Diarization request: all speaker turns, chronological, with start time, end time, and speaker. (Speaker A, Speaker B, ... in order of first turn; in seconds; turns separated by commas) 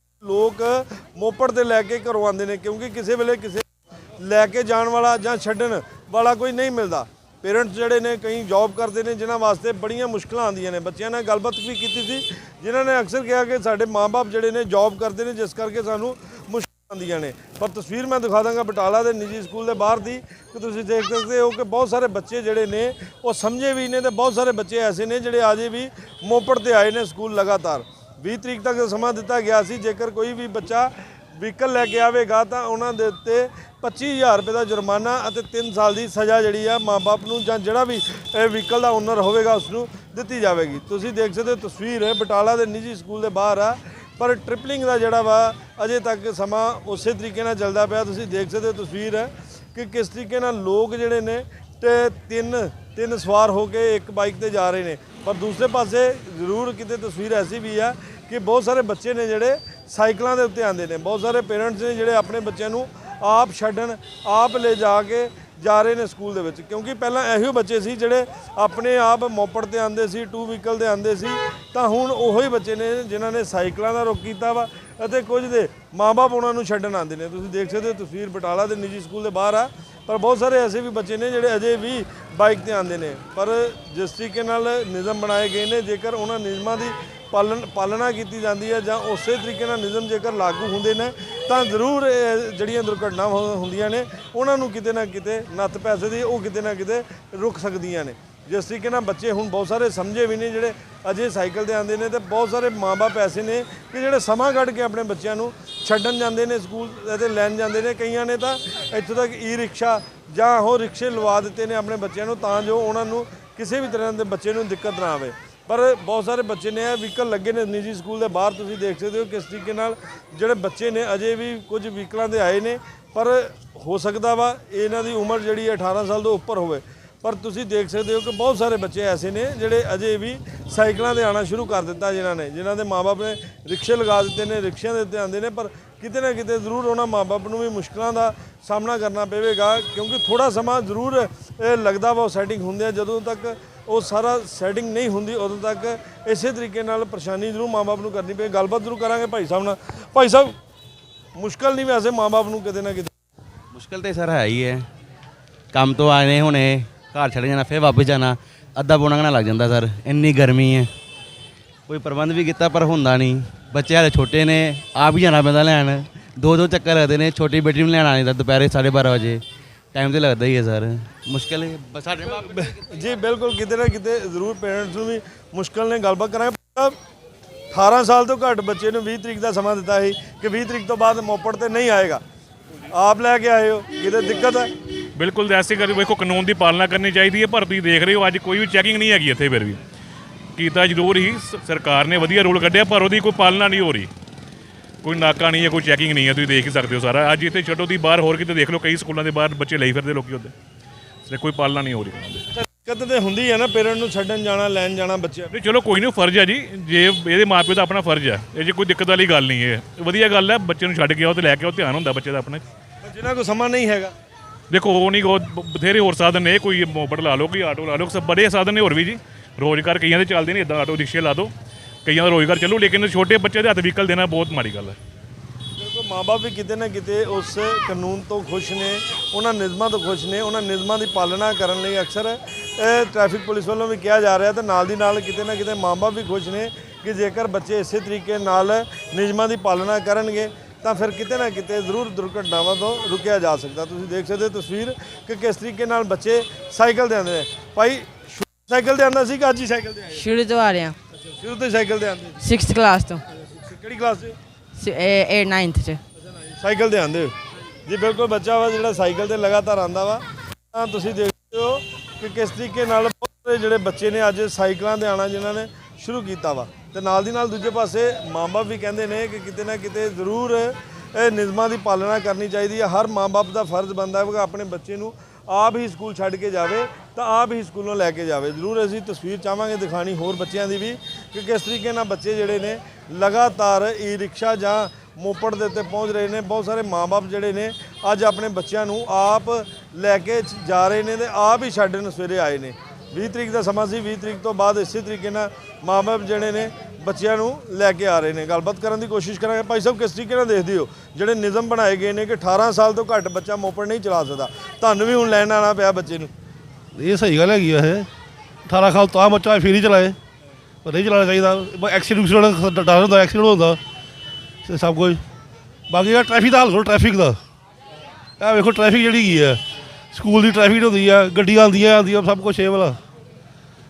Speaker A: 0.2-150.5, Speaker A: 151.3-153.1, Speaker B: 153.7-154.9, Speaker B: 155.7-160.9, Speaker B: 161.9-172.8, Speaker A: 172.4-176.9, Speaker A: 177.7-182.2, Speaker A: 182.9-184.7, Speaker C: 185.2-189.8, Speaker C: 190.6-194.1, Speaker C: 195.0-200.5, Speaker C: 201.2-202.4, Speaker A: 202.5-205.5, Speaker C: 205.5-212.6, Speaker A: 213.0-214.1, Speaker C: 214.7-221.5, Speaker C: 222.0-225.0, Speaker A: 225.8-250.3, Speaker D: 250.1-251.0, Speaker A: 251.2-252.4, Speaker D: 252.4-253.2, Speaker A: 253.5-254.3, Speaker D: 254.8-256.0, Speaker A: 256.5-257.3, Speaker A: 257.9-306.3, Speaker E: 306.9-308.1, Speaker E: 308.6-310.2, Speaker E: 310.8-313.8, Speaker E: 314.6-315.2, Speaker E: 315.9-317.4, Speaker E: 318.4-319.6, Speaker E: 320.1-323.0